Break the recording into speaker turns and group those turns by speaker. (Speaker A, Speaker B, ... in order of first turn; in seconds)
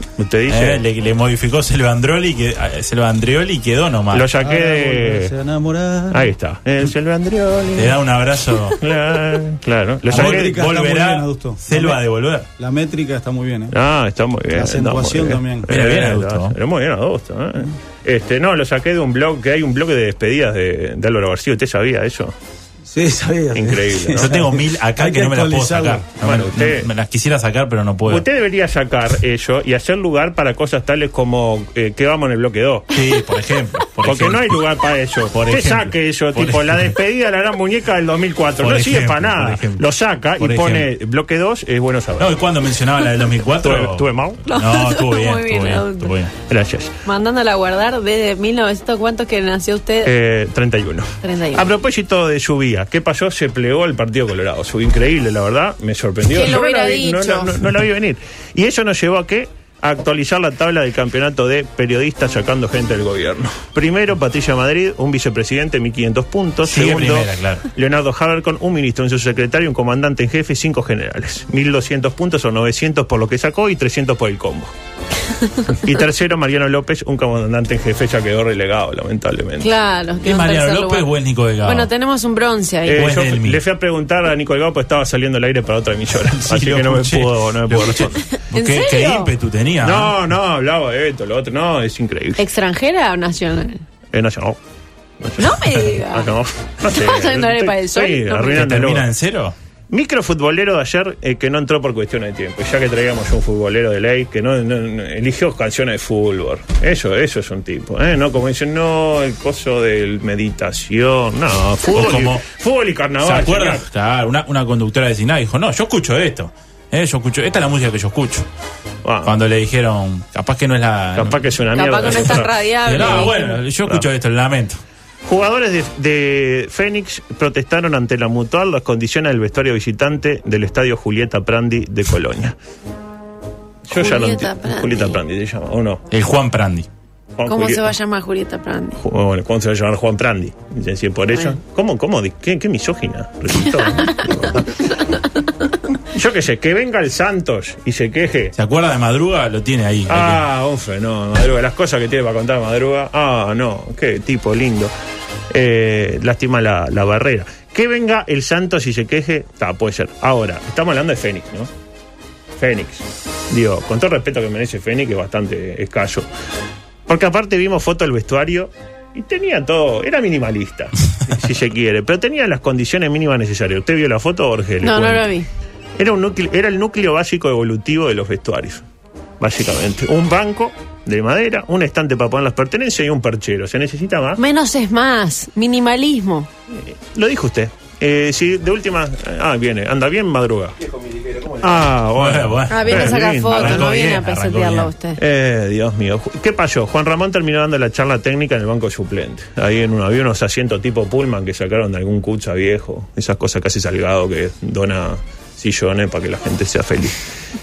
Speaker A: 0.2-0.8, 4.1-5.3, 6.1-8.0, 8.8-10.6, 13.7-22.3, 23.5-24.3, 26.2-26.9, 28.1-32.9, 34.0-42.4, 43.6-44.5, 46.5-47.0, 50.0-74.7, 75.7-79.7, 82.9-88.2, 89.8-92.4, 94.1-94.6, 95.2-99.1, 99.9-113.8, 119.0-119.3, 121.2-123.3, 125.2-132.6, 133.9-136.0, 137.4-137.9, 139.0-144.7, 146.1-148.5, 150.1-154.9, 155.5-161.7, 162.6-166.3, 167.1-175.3, 176.0-178.8, 179.4-184.4, 186.7-190.8, 191.4-193.9, 195.2-207.2
Speaker B: 0.5-4.3, 7.8-8.8, 10.1-12.5, 15.7-16.5, 24.1-28.2, 32.9-34.6, 35.3-37.0, 38.6-39.8, 40.4-40.9, 42.2-46.3, 66.6-67.7, 80.2-81.9, 82.9-83.6, 86.3-90.2, 98.5-99.5, 111.9-112.4, 113.2-118.5, 119.2-124.8, 136.1-136.9, 148.5-150.4, 192.2-194.9
Speaker C: 4.4-6.3, 10.1-12.0, 12.6-13.8, 14.5-15.7, 22.9-26.0
Speaker D: 44.5-46.1, 47.0-50.1, 51.2-51.7, 56.3-57.6, 79.6-83.1, 88.5-89.3, 92.4-93.8, 95.4-96.3, 96.8-98.7, 121.7-123.6, 133.9-135.2, 137.5-139.0, 174.8-175.5, 184.4-186.5, 192.7-195.2